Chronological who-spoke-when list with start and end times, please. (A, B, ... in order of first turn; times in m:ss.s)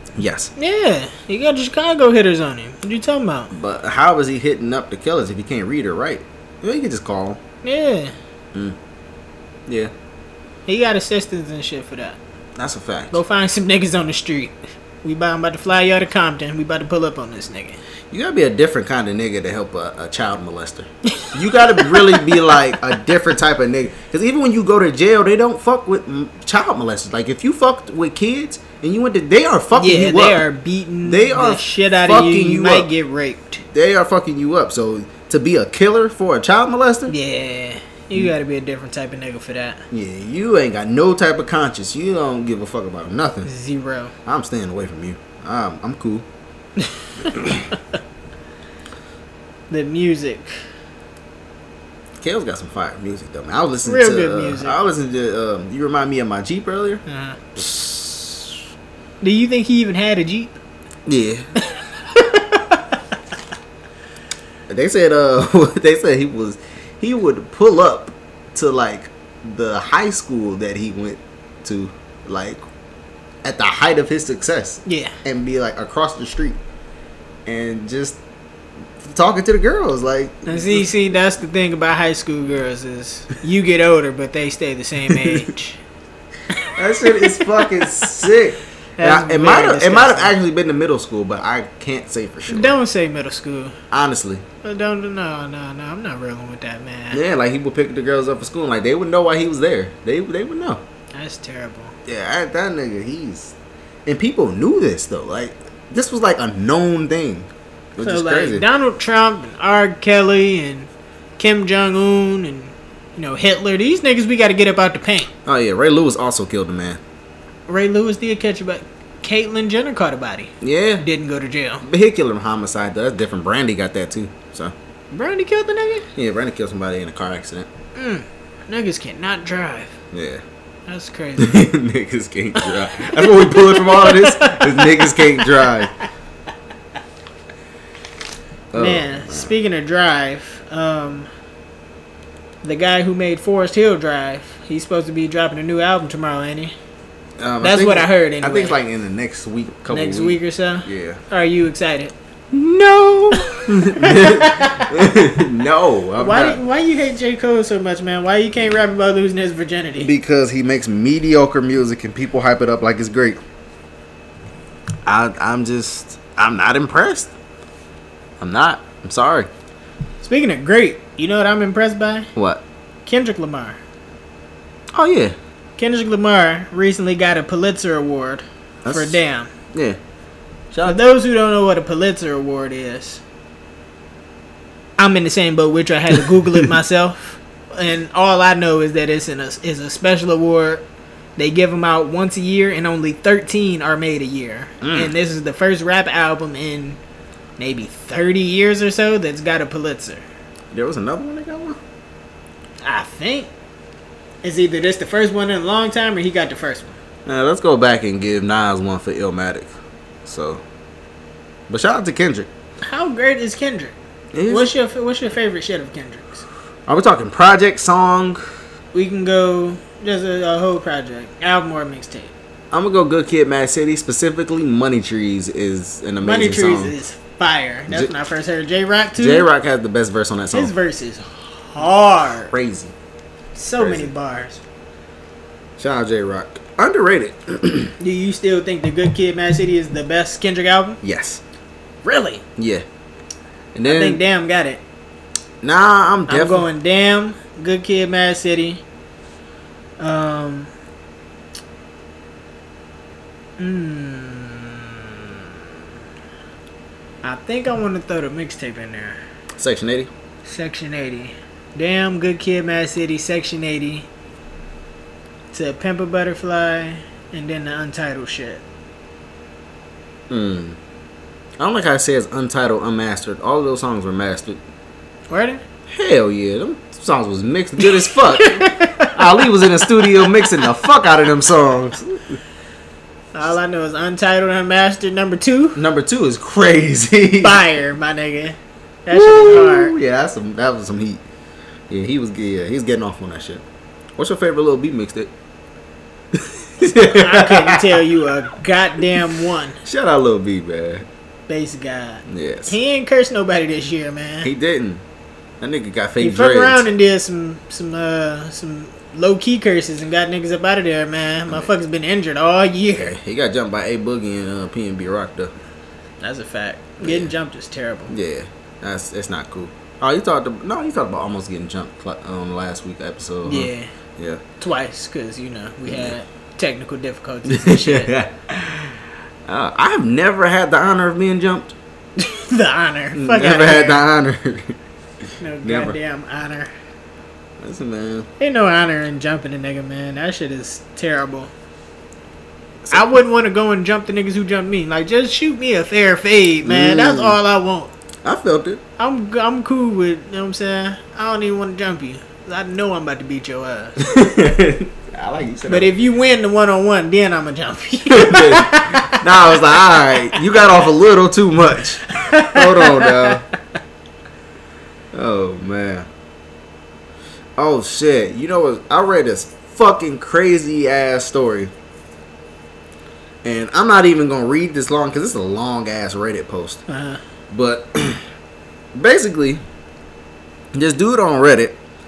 0:00.2-0:00.5 A
0:00.6-0:03.5 B
0:03.5-0:07.4 A
0:07.6-0:08.1 B
0:09.7-0:09.9 A
0:10.7-0:12.2 B
0:12.6-0:13.2 A
0:13.1-0:17.8 B
0:18.1-0:30.4 A
0:21.2-0:22.6 B
0:29.7-0:33.6 B
0:31.0-0:32.9 A
0:33.7-0:37.1 A
0:37.1-0:39.8 B
0:39.9-0:43.5 A
0:43.4-0:44.1 B
0:44.3-0:46.3 A
0:47.3-0:47.7 A
0:49.7-0:50.5 B
0:52.2-0:57.0 A
0:53.8-0:54.8 B
0:57.1-0:57.4 B
0:57.6-0:58.4 A
0:59.2-1:00.6 B
1:01.1-1:01.5 A
1:02.1-1:03.0 B
1:04.7-1:12.6 A
1:13.4-1:16.6 A
1:14.9-1:15.2 B
1:17.5-1:18.2 A
1:19.0-1:20.9 A
1:20.5-1:25.8 B
1:25.1-1:25.4 A
1:26.8-1:32.8 A
1:27.0-1:28.3 B
1:29.0-1:30.4 B
1:32.5-1:33.8 B
1:33.9-1:34.4 A
1:34.6-1:37.2 B
1:37.1-1:40.8 A
1:41.1-1:41.9 B
1:42.1-1:43.5 A
1:44.1-1:48.7 A
1:48.0-1:55.3 B
1:55.5-1:57.0 A
1:57.7-2:01.8 B
2:00.6-2:01.0 A
2:01.8-2:04.8 A
2:05.1-2:06.1 B
2:06.2-2:07.7 A
2:08.0-2:10.0 B
2:10.1-2:10.4 A
2:10.9-2:11.6 B
2:11.4-2:15.9 A
2:12.6-2:15.9 B
2:18.7-2:19.5 A
2:18.8-2:21.3 B
2:22.6-2:26.8 B
2:27.4-2:31.2 A
2:27.6-2:28.8 B
2:29.9-2:32.1 B
2:32.5-2:36.6 A
2:33.3-2:35.2 B
2:36.2-2:40.1 B
2:40.0-2:43.4 A
2:45.1-2:47.3 A
2:48.4-2:49.5 A
2:50.2-2:52.3 B
2:52.4-2:52.6 A
2:53.1-2:53.8 B
2:54.9-2:55.4 A
2:55.8-2:59.5 B
2:58.8-2:59.2 A
2:59.7-3:00.0 A
3:00.7-3:01.0 A
3:00.8-3:03.2 B
3:05.0-3:10.8 B
3:06.1-3:06.7 A
3:11.4-3:17.0 B
3:14.8-3:15.1 A
3:17.6-3:20.2 B
3:20.7-3:21.8 A
3:22.8-3:23.5 B
3:24.4-3:27.0 B
3:27.3-3:29.7 A
3:30.2-3:30.6 A
3:31.7-3:32.5 A
3:32.8-3:34.0 B
3:34.3-3:34.7 A
3:34.5-3:36.4 B
3:36.9-3:38.4 A
3:38.9-3:42.3 B
3:42.7-3:47.0 A
3:46.2-3:49.5 B
3:49.2-3:50.7 A
3:50.5-3:52.5 B
3:52.5-3:52.9 A
3:53.6-3:54.6 B
3:53.8-3:54.1 A
3:55.8-3:57.9 A
3:58.0-4:01.0 B
4:01.0-4:01.4 A
4:02.0-4:02.4 B
4:02.6-4:02.8 A
4:03.7-4:04.2 A
4:03.9-4:04.8 B
4:05.6-4:06.7 A
4:06.3-4:08.8 B
4:10.0-4:10.7 B
4:13.6-4:15.2 B
4:17.2-4:19.2 B
4:19.6-4:20.1 A
4:20.5-4:24.1 B
4:25.5-4:28.6 B
4:30.3-4:30.8 A
4:31.6-4:34.6 A
4:35.3-4:35.6 B
4:35.9-4:42.4 A
4:37.8-4:40.7 B
4:43.3-4:45.8 B
4:45.8-4:47.6 A
4:47.4-4:50.0 B
4:49.1-4:51.2 A
4:51.9-4:53.6 A
4:54.2-4:55.3 A
4:56.3-4:58.0 A
4:57.0-4:59.8 B
4:59.8-5:01.1 A
5:01.5-5:04.5 B
5:02.3-5:02.8 A
5:04.4-5:05.0 A
5:05.6-5:06.8 A
5:06.2-5:13.2 B
5:13.0-5:15.5 A
5:16.2-5:18.1 B
5:17.0-5:17.3 A
5:18.1-5:24.4 A
5:23.4-5:23.9 B
5:24.6-5:28.1 B
5:25.9-5:26.1 A
5:27.5-5:31.8 A
5:32.2-5:34.0 B
5:33.2-5:34.8 A
5:35.4-5:36.7 B
5:35.6-5:36.0 A
5:37.6-5:38.3 A
5:38.4-5:41.5 B
5:42.8-5:43.1 A
5:42.9-5:47.9 B
5:46.6-5:47.4 A
5:48.2-5:48.8 A
5:49.0-5:54.0 B
5:54.0-5:55.9 A
5:55.7-5:59.3 B
5:58.1-6:03.4 A
5:59.9-6:00.4 B
6:02.1-6:03.4 B
6:05.1-6:06.1 A
6:07.6-6:11.7 A
6:13.4-6:16.8 A
6:16.9-6:17.2 B
6:17.5-6:18.2 A
6:18.9-6:19.6 A
6:20.7-6:21.8 A